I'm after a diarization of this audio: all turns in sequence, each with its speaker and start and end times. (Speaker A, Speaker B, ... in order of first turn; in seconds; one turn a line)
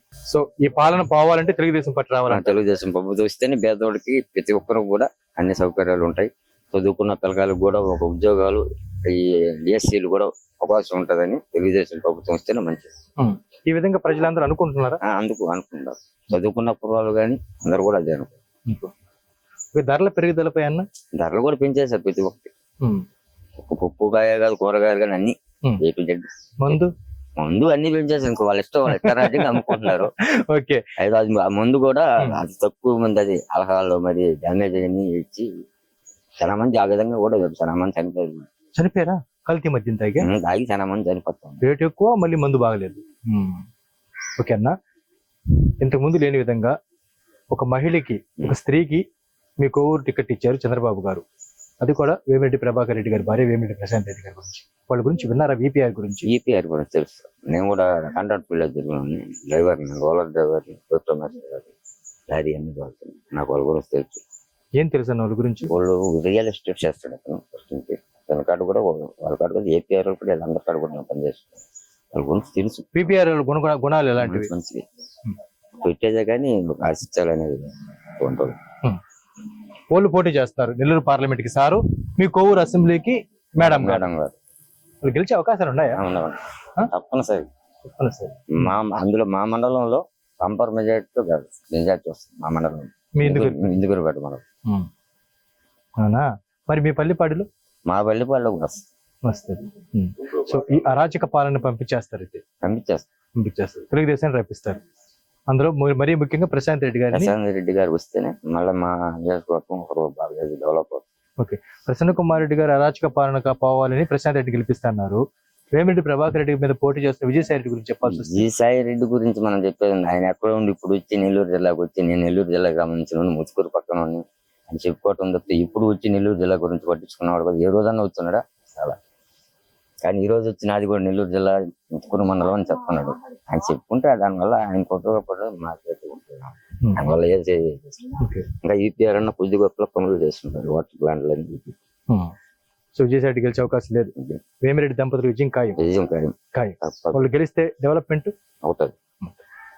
Speaker A: 0.3-2.5
Speaker B: 2.3-12.9
Speaker A: 13.2-15.0
Speaker B: 15.0-18.3
Speaker A: 18.7-18.9
Speaker A: 19.7-20.8
Speaker B: 21.1-22.5
Speaker B: 23.6-26.3
Speaker A: 26.6-26.9
Speaker B: 27.4-30.1
Speaker A: 28.9-30.8
Speaker B: 31.0-35.5
Speaker B: 36.4-38.5
Speaker A: 38.7-40.3
Speaker B: 40.2-41.6
Speaker A: 41.6-43.6
Speaker A: 44.4-44.8
Speaker A: 45.8-46.8
Speaker A: 47.5-49.0
Speaker A: 49.6-51.2
Speaker A: 51.8-56.3
Speaker B: 56.3-61.7
Speaker B: 62.3-64.2
Speaker A: 64.8-65.7
Speaker B: 65.7-71.6
Speaker B: 72.1-73.1
Speaker A: 72.9-74.5
Speaker B: 74.2-74.8
Speaker B: 75.8-78.5
Speaker A: 79.9-84.1
Speaker B: 83.6-84.3
Speaker A: 85.0-86.0
Speaker B: 85.9-87.5
Speaker A: 87.8-88.4
Speaker B: 88.5-94.4
Speaker A: 93.2-93.7
Speaker A: 96.0-97.5
Speaker B: 97.9-98.8
Speaker A: 99.2-102.4
Speaker B: 102.6-103.1
Speaker A: 103.3-104.8
Speaker A: 105.5-107.3
Speaker B: 107.1-111.0
Speaker A: 111.4-115.2
Speaker A: 115.7-118.4
Speaker B: 118.0-129.0
Speaker B: 130.0-138.0
Speaker A: 136.8-137.1
Speaker A: 138.2-138.4
Speaker B: 138.6-141.7
Speaker A: 142.1-142.3
Speaker A: 142.9-145.8
Speaker B: 145.8-147.2
Speaker A: 146.5-148.3
Speaker B: 148.6-148.9